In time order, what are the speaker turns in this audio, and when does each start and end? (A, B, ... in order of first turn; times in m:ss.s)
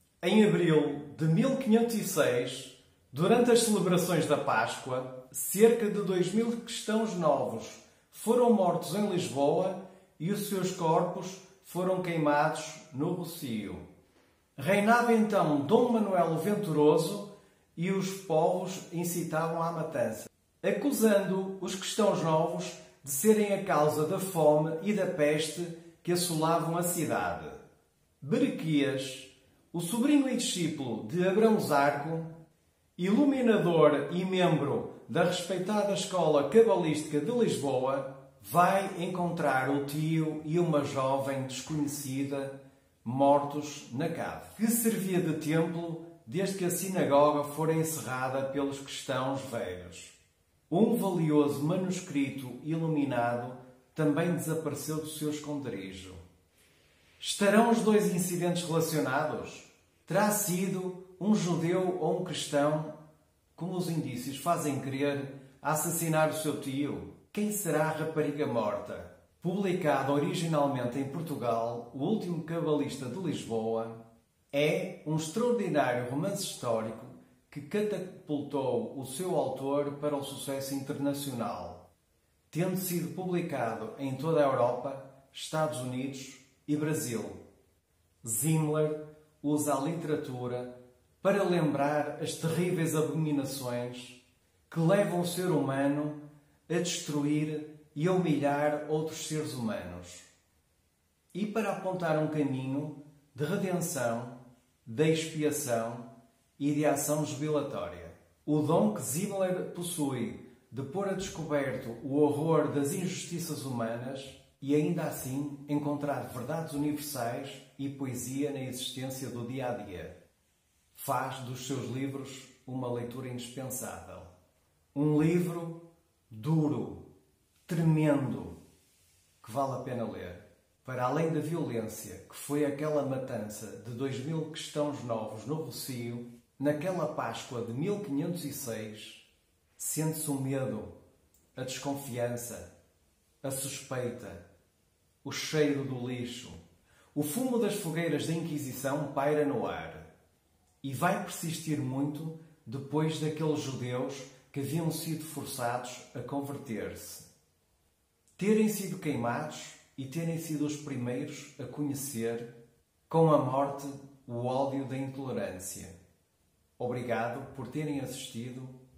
0:00.2-0:13.8 A
0:14.6-0:27.6 A
0:28.2-0:32.3 A
0:33.0-0:50.1 A
0:50.7-0:56.2 A
0:57.2-1:02.9 A
1:03.6-1:14.0 A
1:14.5-1:21.8 A
1:22.5-1:27.4 A
1:28.2-1:30.7 A
1:31.2-1:40.3 A
1:41.3-2:00.1 A
2:00.9-2:04.3 A
2:04.9-2:07.0 A
2:07.6-2:08.6 A
2:09.4-2:19.2 A
2:19.8-2:20.9 A
2:21.5-2:22.7 A
2:23.4-2:24.4 A
2:25.2-2:26.6 A
2:27.1-2:30.1 A
2:30.8-2:37.2 A
2:38.4-2:42.5 A
2:43.1-2:45.9 A
2:46.8-2:48.8 A